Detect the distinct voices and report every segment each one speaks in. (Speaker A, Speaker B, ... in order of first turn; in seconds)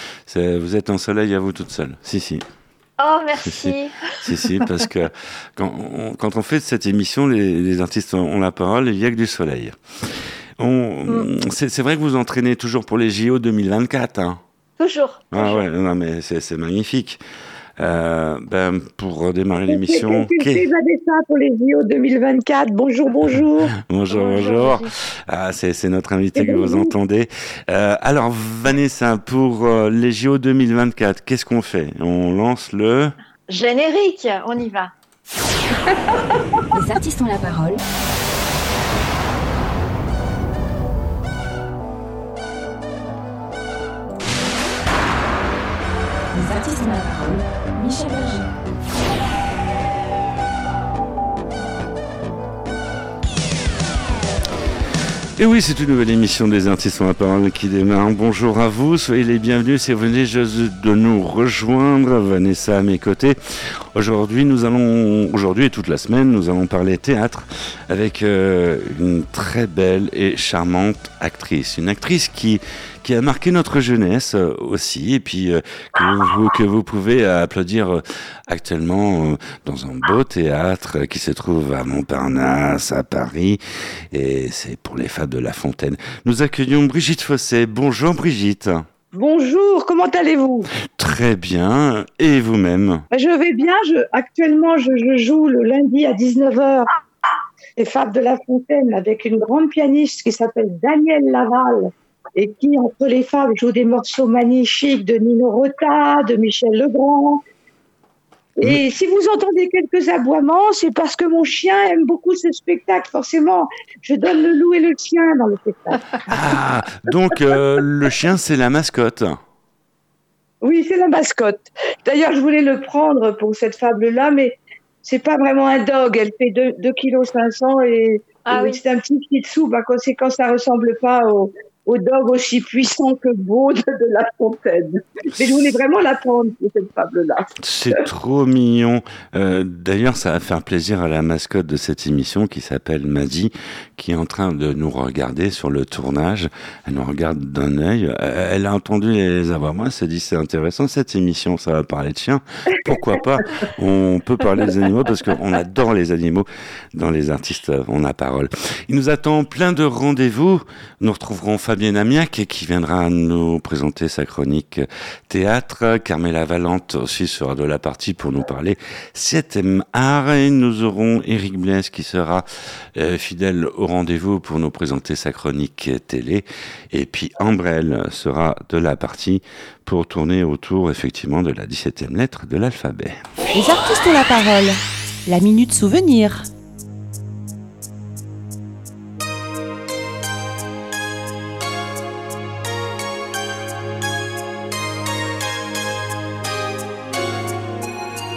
Speaker A: 0.2-2.4, 3.4-9.8, 10.6-14.4, 15.3-17.2, 17.8-20.6, 23.9-33.1, 55.4-63.4, 63.9-83.6, 84.1-88.9, 90.9-93.0, 116.3-119.4, 137.6-183.2
Speaker B: 3.0-4.4, 14.8-15.6, 24.1-24.9, 33.5-34.9, 128.5-128.8
Speaker C: 19.7-23.7, 26.4-26.9, 89.1-90.7, 93.1-96.9, 97.8-107.4, 108.6-116.2, 120.6-137.4
Speaker D: 36.7-37.8, 46.3-48.5
Speaker E: 183.5-186.5